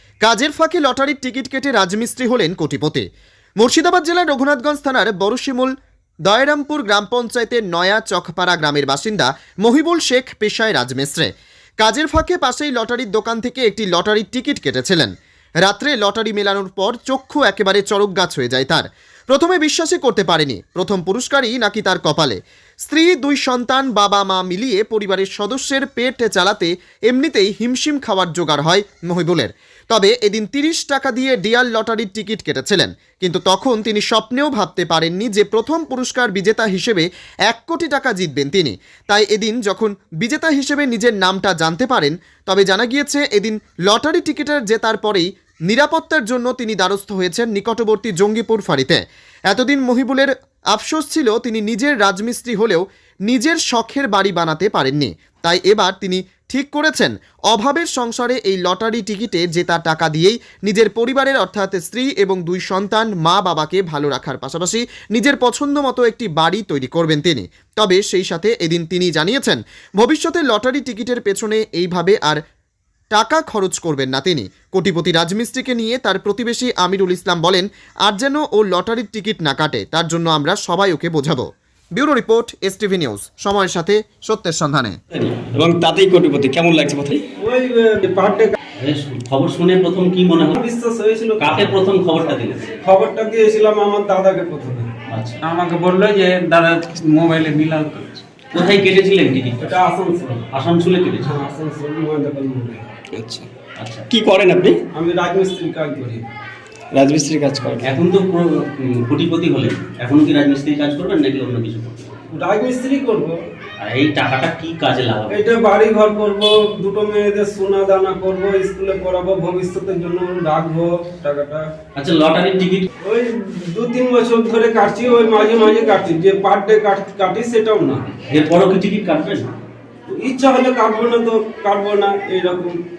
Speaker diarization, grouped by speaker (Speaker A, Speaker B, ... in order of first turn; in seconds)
Speaker A: 0.2-3.1, 3.6-5.7, 6.3-15.1, 15.6-72.4, 73.1-85.0
Speaker B: 85.1-87.2, 103.2-103.5, 104.1-104.8, 106.9-107.9
Speaker C: 87.4-88.5, 90.5-91.7, 92.8-94.9, 99.6-100.4, 101.2-102.9, 104.9-106.2, 112.3-113.4, 115.3-121.7, 123.0-128.1, 130.1-132.8
Speaker D: 88.8-90.6, 91.4-92.8, 95.1-95.4, 98.5-99.8, 100.5-101.3, 103.8-104.1, 107.8-112.2, 113.8-115.5, 122.0-122.9, 128.3-129.5
Speaker E: 95.4-98.2